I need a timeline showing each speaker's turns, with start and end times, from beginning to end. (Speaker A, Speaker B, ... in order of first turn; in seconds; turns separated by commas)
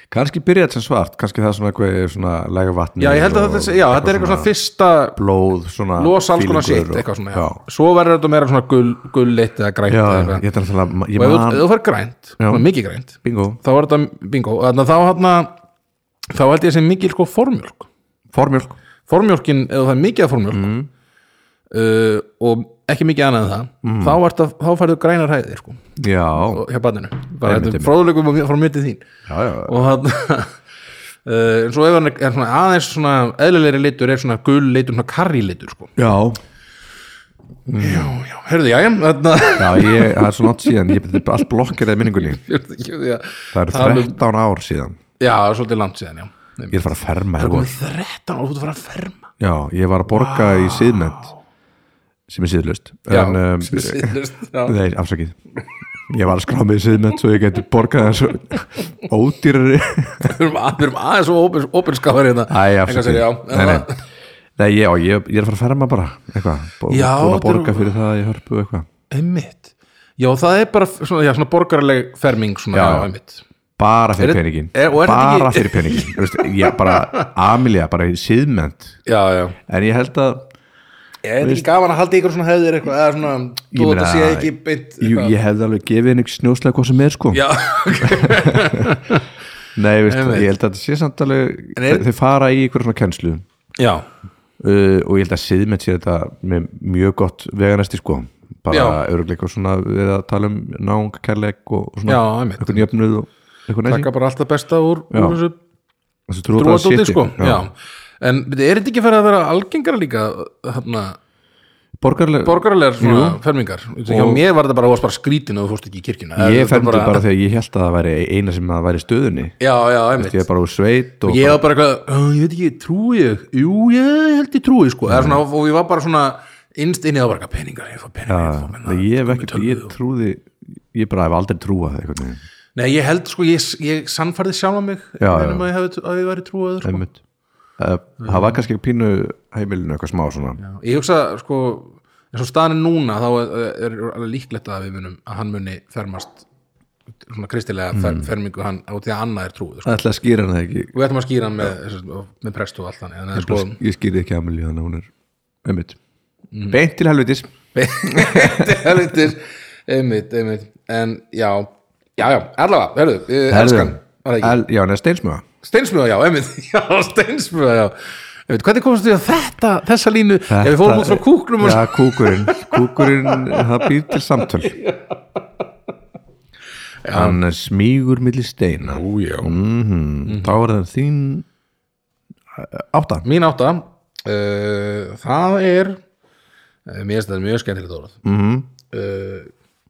Speaker A: 0.1-4.5, Speaker B: 3.0-5.2, Speaker A: 5.2-7.6, Speaker B: 6.0-10.5, Speaker A: 9.9-11.7, Speaker B: 11.2-15.6, Speaker A: 12.4-12.7, Speaker A: 13.2-13.6, Speaker B: 16.3-17.9, Speaker A: 18.3-18.8, Speaker B: 19.1-20.7, Speaker A: 20.5-20.9, Speaker B: 21.7-29.1, Speaker A: 23.8-24.2, Speaker A: 26.0-26.6, Speaker A: 27.4-27.9, Speaker A: 29.3-29.8, Speaker B: 29.6-30.6, Speaker B: 31.2-36.0, Speaker A: 36.0-36.4, Speaker A: 37.7-38.1, Speaker B: 37.8-40.3, Speaker A: 39.6-42.4, Speaker B: 42.1-44.2, Speaker A: 43.5-45.0, Speaker B: 45.2-49.3, Speaker A: 46.7-47.7, Speaker A: 49.4-51.3, Speaker B: 50.1-51.4, Speaker A: 52.3-55.4, Speaker B: 53.1-54.8, Speaker A: 56.1-60.4, Speaker B: 60.2-64.0, Speaker A: 62.5-63.9, Speaker A: 64.6-68.9, Speaker B: 66.9-67.9, Speaker B: 69.1-73.4, Speaker A: 72.7-73.1, Speaker A: 73.8-79.0, Speaker B: 74.2-77.3, Speaker B: 79.1-79.6, Speaker A: 79.7-80.5, Speaker B: 81.2-85.3, Speaker A: 81.4-81.7, Speaker A: 83.7-89.0, Speaker B: 87.3-89.3, Speaker A: 89.8-93.4, Speaker B: 90.1-90.5, Speaker B: 91.8-92.1, Speaker B: 93.8-94.1, Speaker A: 94.6-104.1, Speaker B: 98.7-99.0, Speaker B: 102.1-102.9, Speaker B: 103.8-105.6, Speaker A: 105.1-105.4, Speaker A: 106.3-107.7, Speaker B: 106.5-111.2, Speaker A: 112.0-113.4, Speaker B: 112.4-117.2, Speaker A: 114.1-114.4, Speaker A: 116.4-119.6, Speaker B: 119.6-120.5, Speaker A: 120.2-121.6, Speaker B: 121.2-129.9, Speaker A: 125.1-125.4, Speaker A: 128.3-132.4, Speaker B: 132.8-137.1, Speaker A: 135.2-135.7, Speaker A: 136.8-137.2, Speaker A: 137.8-140.6, Speaker B: 138.2-138.6, Speaker B: 140.6-146.4, Speaker B: 147.2-150.0, Speaker A: 147.9-148.3, Speaker A: 149.8-150.9, Speaker B: 150.9-153.8, Speaker A: 153.3-155.1, Speaker A: 155.6-156.0, Speaker B: 156.5-156.8, Speaker A: 156.7-157.5, Speaker B: 157.7-164.6, Speaker A: 158.0-159.0, Speaker A: 163.5-165.4, Speaker B: 165.6-175.4, Speaker A: 170.5-174.8, Speaker B: 177.0-177.4, Speaker A: 177.1-181.4, Speaker B: 178.8-179.5, Speaker B: 180.2-180.6, Speaker A: 182.5-183.3, Speaker B: 183.2-186.0, Speaker B: 186.9-188.2, Speaker A: 188.2-188.7, Speaker B: 188.9-189.5